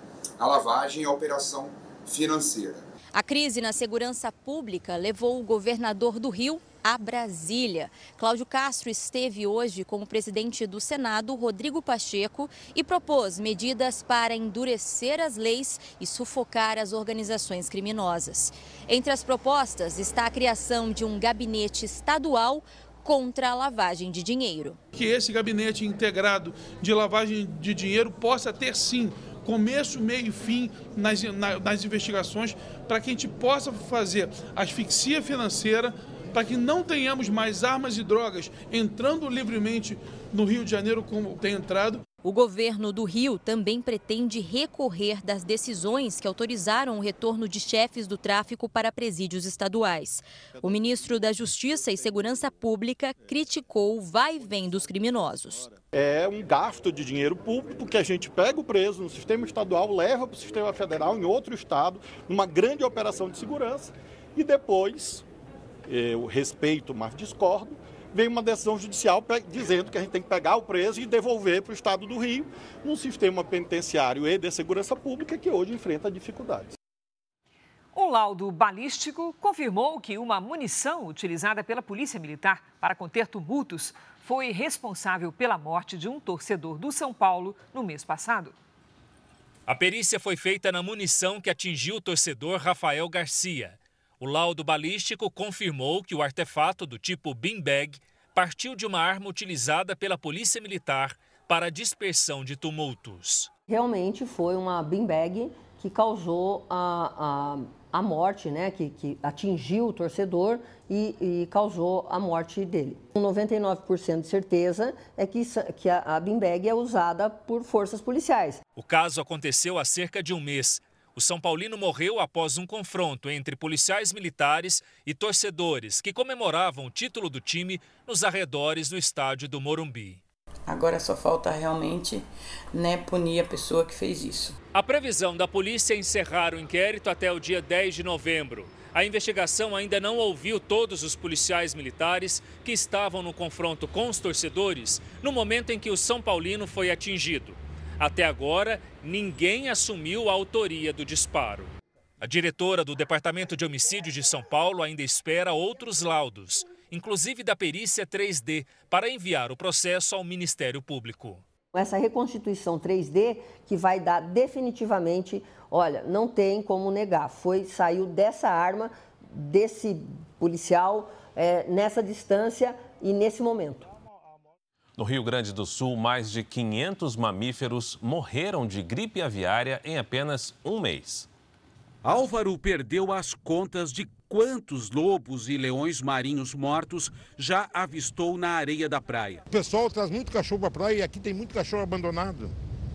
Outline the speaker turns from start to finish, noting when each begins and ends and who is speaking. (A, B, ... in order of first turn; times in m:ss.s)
0:00.4-0:02.8 A
0:03.2-0:24.8 B
0:24.9-0:42.0 C
0:42.2-0:55.7 B
0:55.9-1:05.2 D
1:05.9-1:16.7 D
1:17.9-1:28.6 E
1:29.7-1:43.5 F
1:43.7-1:58.6 G
1:58.8-2:10.2 F
2:10.7-2:14.6 H
2:14.7-2:41.4 F
2:41.7-2:53.9 G
2:55.0-3:01.3 I
3:02.0-3:09.4 J
3:09.5-3:12.5 K